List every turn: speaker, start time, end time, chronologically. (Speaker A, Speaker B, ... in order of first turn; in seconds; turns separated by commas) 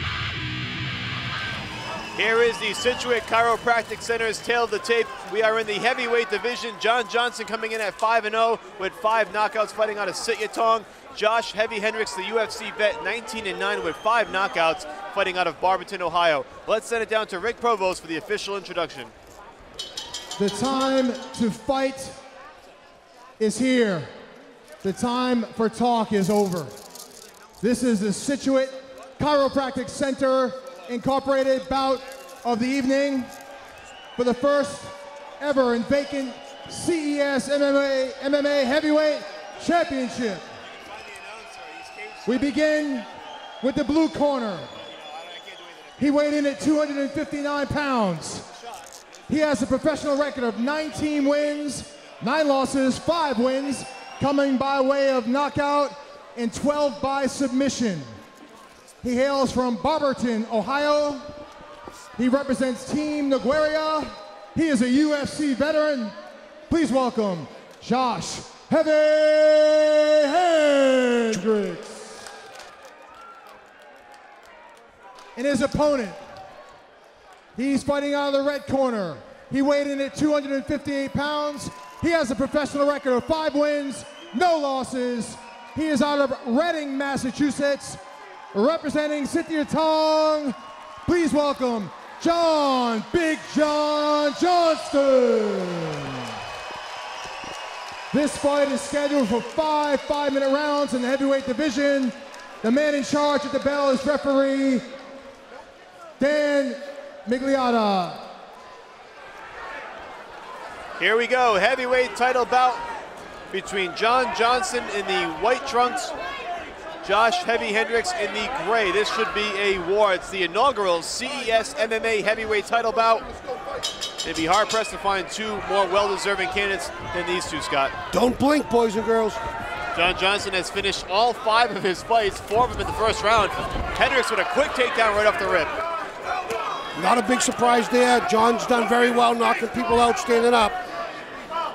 Speaker A: 2.1-19.1, Speaker B: 20.4-22.1, Speaker B: 23.4-24.1, Speaker B: 24.8-26.7, Speaker B: 27.6-33.3, Speaker B: 34.1-40.5, Speaker A: 40.7-43.0, Speaker B: 42.2-43.1, Speaker B: 43.6-44.7, Speaker A: 44.8-46.5, Speaker B: 46.0-48.4, Speaker B: 49.3-58.1, Speaker B: 59.0-61.4, Speaker B: 62.1-66.2, Speaker B: 66.7-72.2, Speaker B: 75.3-76.2, Speaker B: 77.5-88.0, Speaker B: 88.5-96.3, Speaker B: 98.1-104.8, Speaker B: 106.2-108.3, Speaker A: 111.0-112.8, Speaker A: 113.5-116.1, Speaker A: 117.0-123.3, Speaker A: 124.2-127.9, Speaker C: 128.1-129.4, Speaker A: 129.9-135.7, Speaker C: 136.9-140.8